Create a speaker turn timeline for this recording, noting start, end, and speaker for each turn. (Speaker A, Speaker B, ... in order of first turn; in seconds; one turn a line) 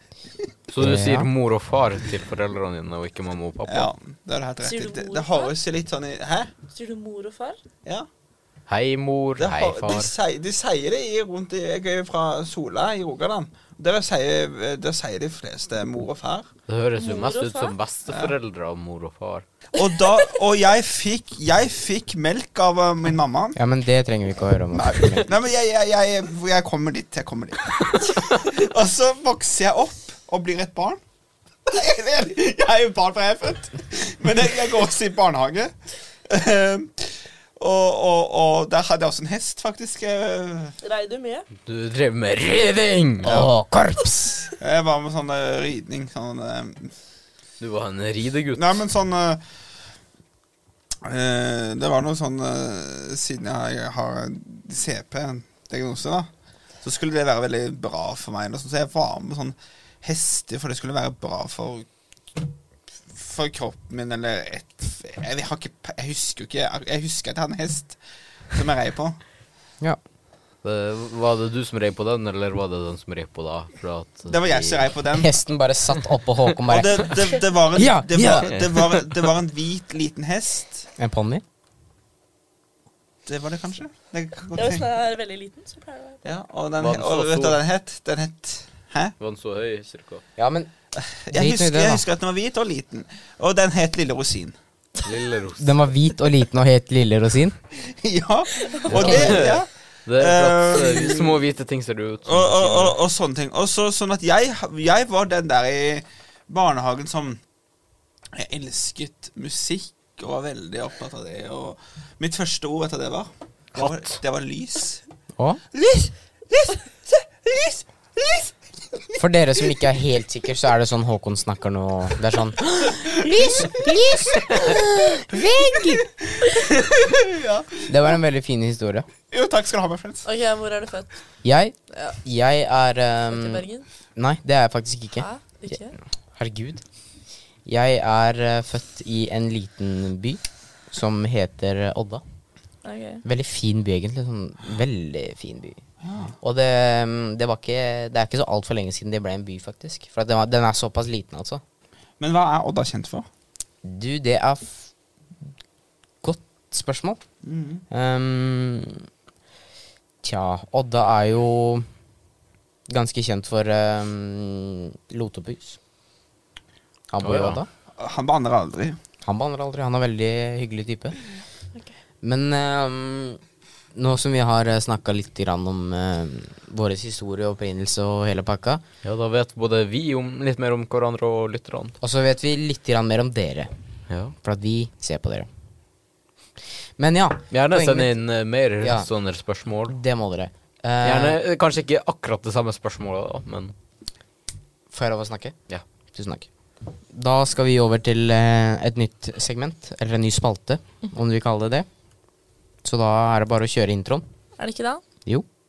Speaker A: 0.7-3.9
Speaker B: 0.8-1.3
Speaker C: 3.7-6.5
Speaker D: 4.6-5.5
Speaker D: 6.7-7.6
Speaker A: 8.7-10.1
Speaker C: 9.4-16.5
Speaker A: 16.7-19.4
Speaker D: 17.0-17.7
Speaker C: 18.1-18.3
Speaker C: 19.7-23.6
Speaker B: 23.6-25.3
Speaker C: 24.7-31.0
Speaker C: 31.7-35.7
Speaker C: 36.3-40.8
Speaker D: 40.8-41.5
Speaker A: 41.6-43.5
Speaker B: 43.2-44.5
Speaker C: 44.6-46.9
Speaker A: 47.6-48.8
Speaker C: 48.5-49.4
Speaker C: 51.0-56.3
Speaker C: 56.8-61.9
Speaker C: 63.1-68.0
Speaker C: 68.5-69.2
Speaker A: 70.6-74.9
Speaker C: 74.3-75.3
Speaker B: 75.1-77.2
Speaker C: 76.7-80.9
Speaker B: 77.7-78.5
Speaker A: 78.4-79.0
Speaker B: 81.0-81.4
Speaker C: 83.2-84.9
Speaker D: 84.5-86.2
Speaker C: 86.2-89.1
Speaker A: 86.8-87.6
Speaker A: 89.2-90.2
Speaker B: 90.4-90.7
Speaker C: 91.0-94.5
Speaker B: 91.3-92.0
Speaker A: 95.0-95.8
Speaker B: 95.6-97.6
Speaker C: 97.8-101.4
Speaker A: 98.9-102.9
Speaker B: 98.9-99.5
Speaker C: 102.2-107.4
Speaker C: 108.3-115.0
Speaker A: 113.7-114.2
Speaker C: 115.7-119.2
Speaker B: 119.2-126.0
Speaker C: 122.8-127.9
Speaker B: 127.9-129.1
Speaker C: 129.3-130.2
Speaker D: 130.2-131.1
Speaker B: 131.4-135.3
Speaker D: 131.9-132.2
Speaker D: 133.3-133.8
Speaker D: 135.2-135.9
Speaker B: 136.3-136.8
Speaker B: 137.7-142.2
Speaker D: 142.8-143.2
Speaker B: 143.2-145.8
Speaker C: 146.0-146.3
Speaker B: 146.4-151.6
Speaker C: 152.2-153.3
Speaker B: 153.8-154.9
Speaker B: 156.2-157.2
Speaker C: 157.4-157.8
Speaker B: 157.9-159.1
Speaker B: 160.2-161.8
Speaker B: 162.9-165.8
Speaker B: 167.1-167.7
Speaker A: 167.2-167.6
Speaker C: 168.0-169.0
Speaker B: 169.2-171.2
Speaker B: 172.2-173.4
Speaker B: 173.9-178.8
Speaker A: 179.0-181.9
Speaker B: 182.0-183.7
Speaker A: 184.1-184.3
Speaker B: 184.4-185.5
Speaker B: 187.0-188.2
Speaker A: 187.5-189.9
Speaker B: 188.8-189.1
Speaker B: 189.9-191.4
Speaker A: 191.0-193.7
Speaker B: 194.9-195.6
Speaker B: 196.1-196.5
Speaker B: 197.1-201.9
Speaker B: 202.8-204.2
Speaker D: 204.6-205.0